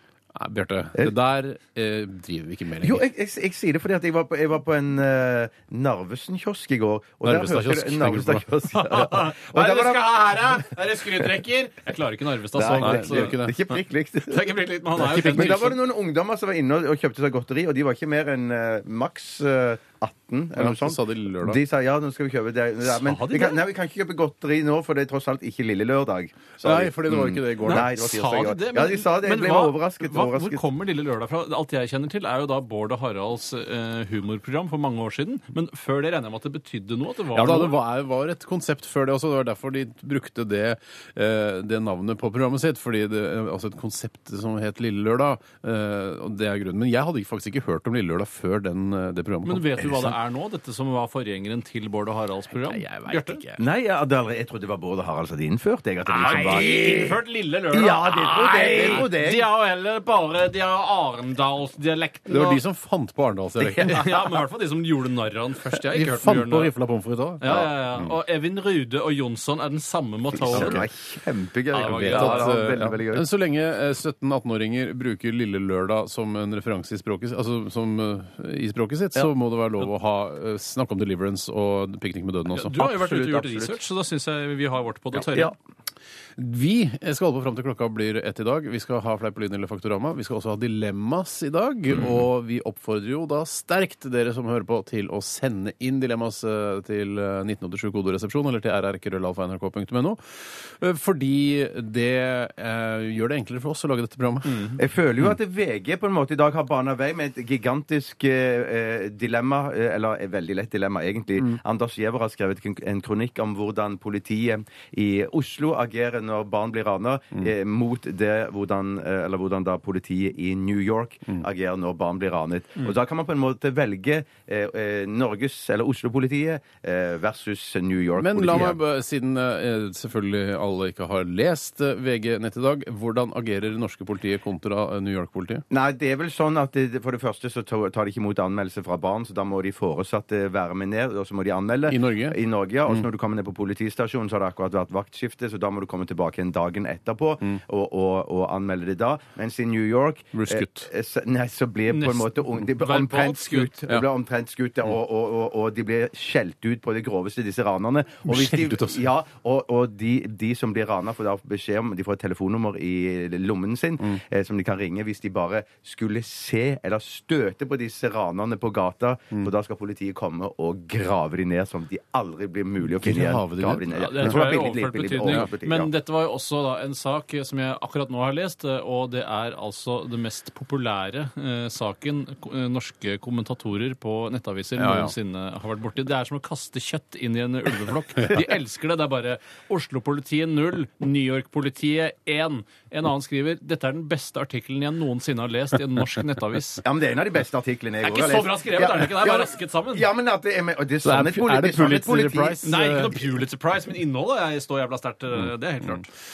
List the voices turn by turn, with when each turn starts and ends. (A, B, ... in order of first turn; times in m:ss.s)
0:00.4-0:03.1 A
0:02.8-0:10.6 B
0:07.2-0:08.5 A
0:08.8-0:13.7 C
0:12.6-0:30.6 B
0:12.8-0:13.6 A
0:14.2-0:15.8 C
0:15.2-0:15.7 A
0:20.6-0:21.6 A
0:22.8-0:23.6 C
0:26.6-0:28.0 A
0:27.6-0:37.8 C
0:37.3-0:50.2 A
0:49.4-0:53.4 C
0:52.6-0:53.6 A
0:53.6-0:57.2 B
0:56.1-1:02.6 C
0:56.2-0:57.1 A
0:57.7-0:59.5 B
0:58.3-0:59.1 A
1:02.3-1:04.0 A
1:03.6-1:04.1 B
1:03.8-1:06.7 C
1:05.8-1:08.1 A
1:07.4-1:10.8 C
1:10.5-1:13.3 B
1:10.5-1:10.9 A
1:11.7-1:12.6 C
1:11.8-1:22.9 A
1:22.5-1:25.5 C
1:22.8-1:23.8 B
1:25.1-1:25.5 B
1:26.4-1:44.7 A
1:44.5-1:44.8 C
1:44.8-2:08.8 B
2:08.2-2:15.6 A
2:15.7-2:55.9 B
2:21.9-2:23.1 A
2:30.3-2:30.9 A
2:31.9-2:33.7 C
2:38.3-2:39.0 A
2:53.0-2:54.6 A
2:53.9-3:16.8 C
3:04.8-3:05.1 A
3:16.8-3:22.6 B
3:18.0-3:20.1 C
3:21.0-3:23.2 A
3:22.6-3:26.1 C